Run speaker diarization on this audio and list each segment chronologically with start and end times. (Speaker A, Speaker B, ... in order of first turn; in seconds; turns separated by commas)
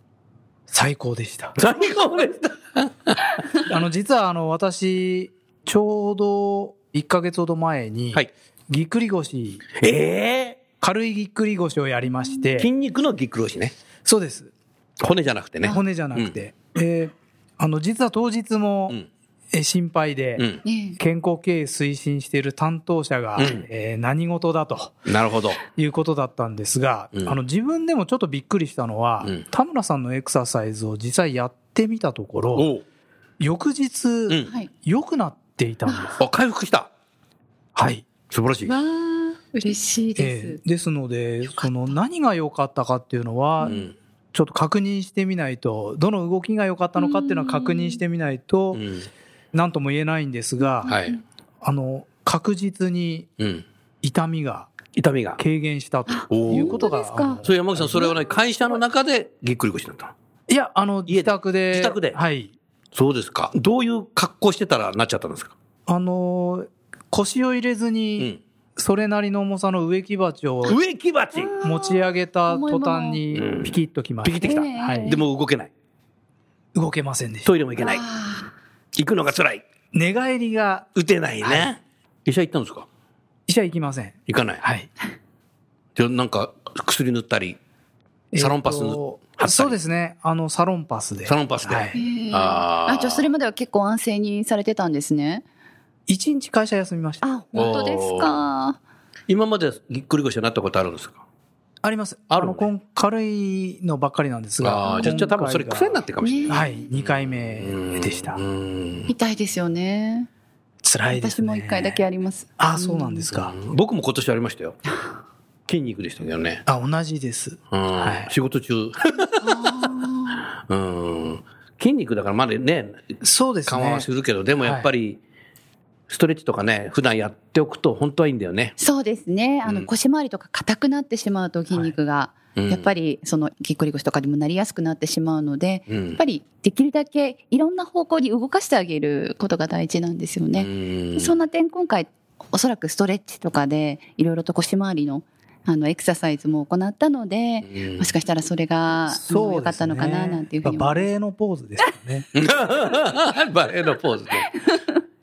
Speaker A: 0.7-1.6, Speaker B: 1.6-3.4, Speaker A: 3.6-9.7, Speaker B: 9.8-10.6, Speaker A: 10.8-12.7, Speaker B: 12.6-13.7, Speaker A: 14.1-14.5, Speaker B: 15.0-16.4, Speaker A: 15.6-19.0, Speaker A: 19.5-20.4, Speaker B: 20.4-20.6, Speaker C: 20.6-21.0, Speaker A: 21.0-25.0, Speaker B: 23.4-23.7, Speaker B: 25.1-25.6, Speaker A: 25.6-32.7, Speaker B: 32.5-32.8, Speaker A: 33.4-36.2, Speaker C: 35.9-36.1, Speaker B: 36.2-36.9, Speaker A: 37.8-38.1, Speaker B: 38.3-38.7, Speaker C: 38.7-40.6, Speaker A: 40.2-43.8, Speaker B: 43.6-43.9, Speaker A: 44.3-48.8, Speaker C: 47.0-48.0, Speaker B: 48.7-49.1, Speaker A: 49.5-50.9, Speaker C: 50.6-51.2, Speaker B: 50.9-51.2, Speaker A: 51.6-53.3, Speaker B: 53.4-53.6, Speaker A: 54.0-54.7, Speaker B: 55.0-55.4, Speaker A: 55.4-58.1, Speaker C: 56.1-58.8, Speaker B: 56.3-56.9, Speaker B: 57.4-60.1, Speaker A: 60.5-62.5, Speaker B: 61.1-62.2, Speaker B: 62.9-65.5, Speaker A: 65.9-70.8, Speaker B: 70.7-71.5, Speaker C: 71.4-73.2, Speaker A: 71.6-75.2, Speaker B: 73.3-75.7, Speaker C: 74.4-75.2, Speaker A: 76.8-77.5, Speaker B: 77.5-78.0, Speaker C: 77.8-78.5, Speaker B: 78.9-79.6, Speaker A: 79.9-80.9, Speaker B: 81.0-82.9, Speaker A: 81.4-81.7, Speaker A: 83.5-84.9, Speaker B: 84.3-84.6, Speaker B: 86.0-87.6, Speaker A: 88.3-92.0, Speaker B: 88.4-89.8, Speaker B: 91.3-93.2, Speaker C: 91.9-95.4, Speaker A: 96.1-97.2, Speaker C: 97.2-98.8, Speaker B: 97.5-98.4, Speaker B: 99.3-101.2, Speaker A: 101.8-108.4, Speaker B: 102.3-102.7, Speaker B: 104.6-109.1, Speaker C: 104.8-105.2, Speaker C: 106.2-106.8, Speaker C: 109.1-110.3, Speaker A: 110.8-112.0, Speaker C: 111.1-113.3, Speaker A: 112.6-113.5, Speaker B: 113.3-114.8, Speaker B: 115.7-116.6, Speaker A: 116.7-118.3, Speaker B: 117.7-119.8, Speaker C: 119.4-120.5, Speaker B: 120.7-123.1, Speaker A: 123.2-124.1, Speaker B: 123.7-125.2, Speaker A: 124.6-124.9, Speaker B: 126.1-128.8, Speaker C: 128.8-151.1, Speaker B: 132.6-132.9, Speaker B: 135.9-136.2, Speaker B: 140.6-141.4, Speaker B: 147.7-148.1, Speaker A: 149.1-152.3, Speaker B: 152.3-154.5, Speaker C: 154.5-155.0